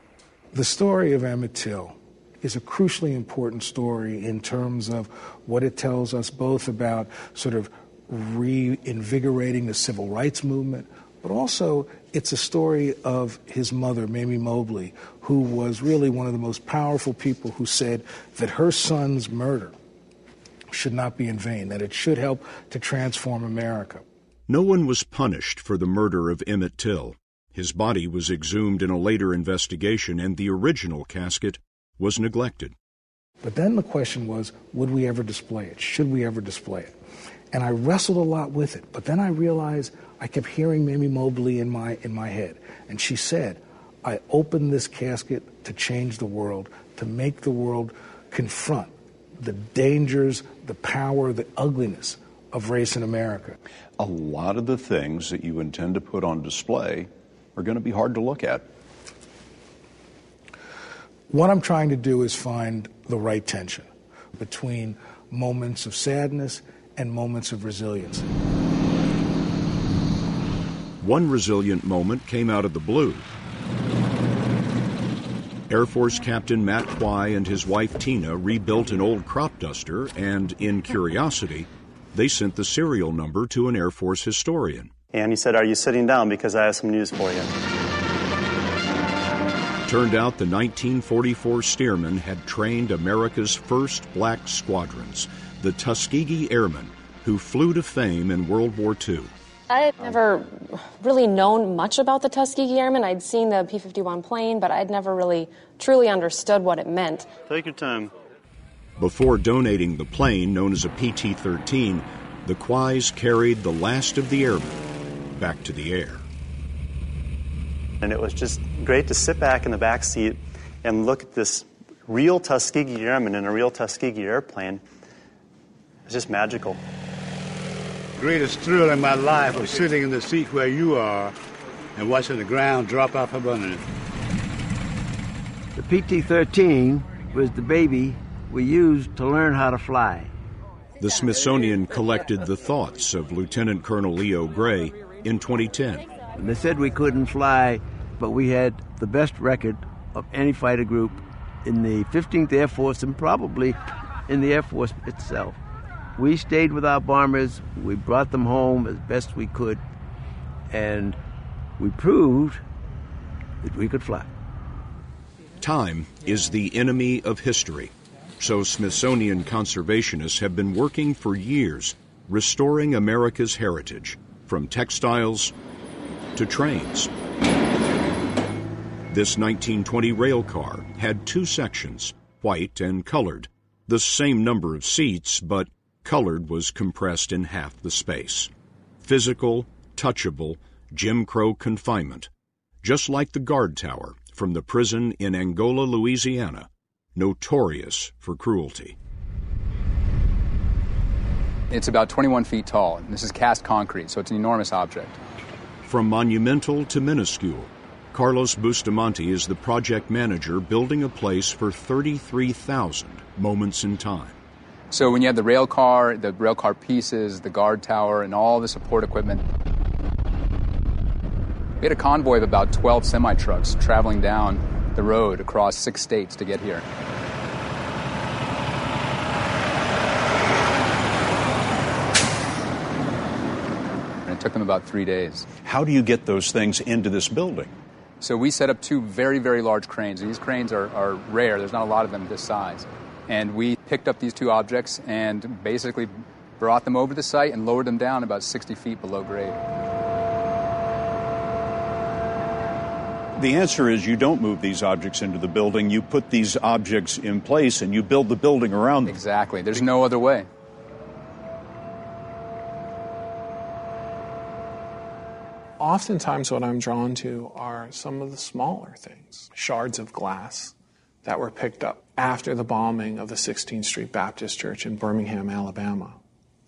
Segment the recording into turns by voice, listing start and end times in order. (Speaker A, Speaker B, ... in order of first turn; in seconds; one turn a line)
Speaker A: 0.5-19.8
Speaker A: 20.7-24.0
Speaker B: 24.5-32.7
Speaker A: 33.4-37.0
Speaker A: 37.5-53.6
Speaker B: 54.0-58.6
Speaker A: 61.3-68.3
Speaker B: 71.0-73.3
Speaker B: 75.7-84.9
Speaker C: 85.1-87.5
Speaker B: 89.9-99.3
Speaker D: 99.7-107.3
Speaker C: 107.5-108.1
Speaker B: 109.0-114.8
Speaker B: 115.4-116.2
Speaker C: 118.0-124.8
Speaker C: 126.1-126.8
Speaker E: 128.2-131.3
Speaker E: 132.0-133.9
Speaker F: 135.8-140.3
Speaker B: 141.0-146.1
Speaker F: 146.4-155.6
Speaker F: 156.2-159.8
Speaker F: 160.7-161.2
Speaker F: 161.8-162.6
Speaker F: 163.6-164.3
Speaker B: 165.6-175.5
Speaker B: 176.4-177.1
Speaker B: 179.1-188.5
Speaker B: 189.0-192.3
Speaker B: 192.8-199.0
Speaker G: 201.7-205.2
Speaker B: 205.8-214.4
Speaker G: 214.9-219.4
Speaker G: 221.8-226.8
Speaker G: 234.3-235.4
Speaker B: 235.6-237.8
Speaker G: 238.2-249.6
Speaker B: 253.4-259.2
Speaker G: 259.1-260.5
Speaker H: 265.8-276.2